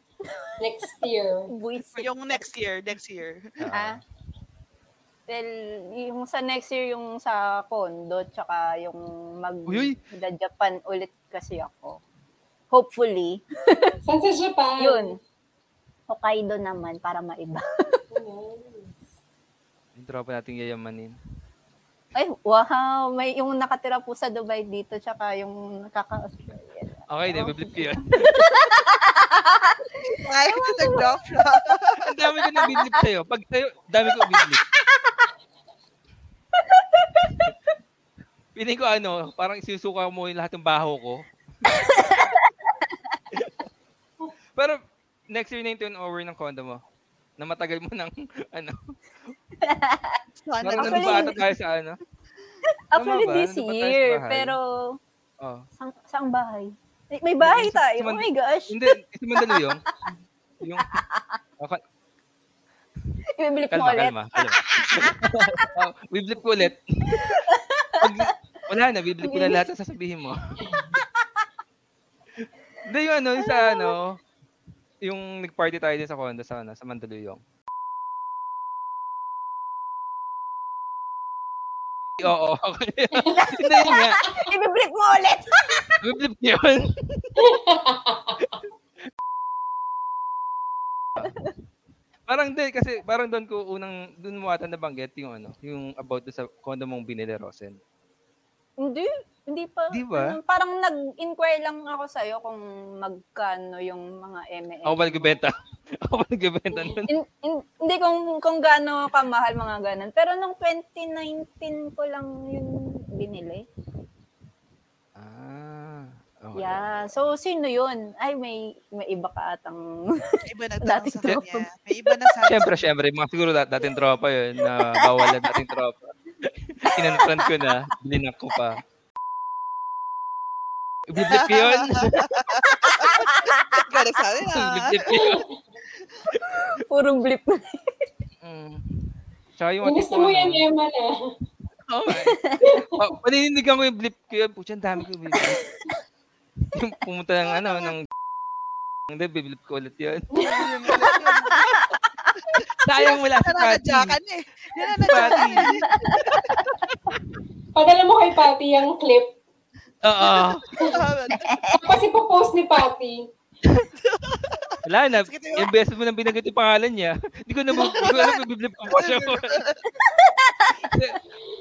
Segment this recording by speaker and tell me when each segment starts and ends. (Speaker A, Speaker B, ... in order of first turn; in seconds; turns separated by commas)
Speaker A: 0.2-0.5, Speaker B: 0.6-1.5, Speaker A: 1.5-2.4, Speaker C: 1.8-3.5, Speaker D: 3.6-4.0, Speaker A: 3.7-4.0, Speaker A: 5.3-12.0, Speaker D: 9.7-10.0, Speaker A: 12.7-14.0, Speaker B: 14.0-15.1, Speaker A: 14.8-15.1, Speaker A: 16.1-18.0, Speaker B: 18.1-19.1, Speaker D: 19.9-21.1, Speaker A: 22.1-31.1, Speaker D: 27.1-28.4, Speaker C: 30.1-32.0, Speaker D: 32.0-34.6, Speaker A: 32.5-33.0, Speaker A: 34.2-35.3, Speaker A: 36.6-37.5, Speaker D: 38.5-41.3, Speaker A: 41.7-43.2, Speaker D: 42.0-42.3, Speaker D: 43.3-43.6, Speaker D: 45.3-46.8, Speaker D: 47.4-48.9, Speaker A: 49.6-50.2, Speaker C: 50.4-51.4, Speaker D: 50.6-52.0, Speaker A: 50.8-51.4, Speaker A: 52.9-55.0, Speaker D: 52.9-54.5, Speaker D: 55.4-55.6, Speaker A: 55.8-59.8, Speaker D: 57.4-59.8, Speaker D: 60.6-60.9, Speaker A: 60.9-61.4, Speaker A: 63.4-65.7, Speaker D: 63.7-67.4, Speaker A: 67.1-68.3, Speaker D: 68.0-70.6, Speaker A: 69.2-69.6, Speaker B: 70.7-70.9, Speaker A: 71.0-71.4, Speaker D: 72.4-74.2, Speaker A: 73.4-73.9, Speaker D: 75.0-77.4, Speaker D: 82.2-84.2, Speaker B: 83.1-83.5, Speaker A: 83.4-86.0, Speaker D: 86.0-87.5, Speaker B: 87.4-88.5, Speaker D: 91.2-91.5, Speaker A: 91.2-91.5, Speaker D: 92.3-97.8, Speaker A: 98.8-105.4, Speaker D: 99.9-100.3, Speaker D: 104.8-105.5, Speaker D: 106.0-107.1, Speaker A: 107.1-113.7, Speaker D: 115.2-117.1, Speaker A: 116.5-122.3, Speaker C: 120.4-122.7, Speaker D: 122.4-128.8, Speaker A: 124.7-125.3, Speaker A: 126.9-127.8, Speaker D: 131.1-132.5, Speaker C: 131.2-135.3, Speaker A: 132.7-133.8, Speaker D: 134.4-135.4, Speaker B: 135.1-135.5, Speaker D: 136.3-136.7, Speaker A: 136.4-138.1, Speaker D: 138.4-140.7, Speaker B: 139.8-141.1, Speaker D: 141.9-142.4, Speaker A: 142.1-142.7, Speaker B: 142.6-142.9, Speaker D: 142.9-145.6, Speaker D: 146.7-148.0, Speaker D: 149.1-150.3, Speaker B: 150.3-151.1, Speaker C: 150.4-151.9, Speaker D: 152.8-154.2, Speaker C: 153.0-156.4, Speaker D: 154.9-155.8, Speaker A: 155.1-156.5, Speaker D: 156.3-157.2, Speaker B: 157.7-159.4, Speaker D: 160.0-160.6, Speaker C: 160.3-161.8, Speaker A: 161.3-161.8, Speaker B: 161.8-163.3, Speaker C: 164.0-165.7, Speaker D: 164.8-169.6, Speaker C: 167.9-169.8, Speaker A: 170.0-170.8, Speaker D: 170.8-171.2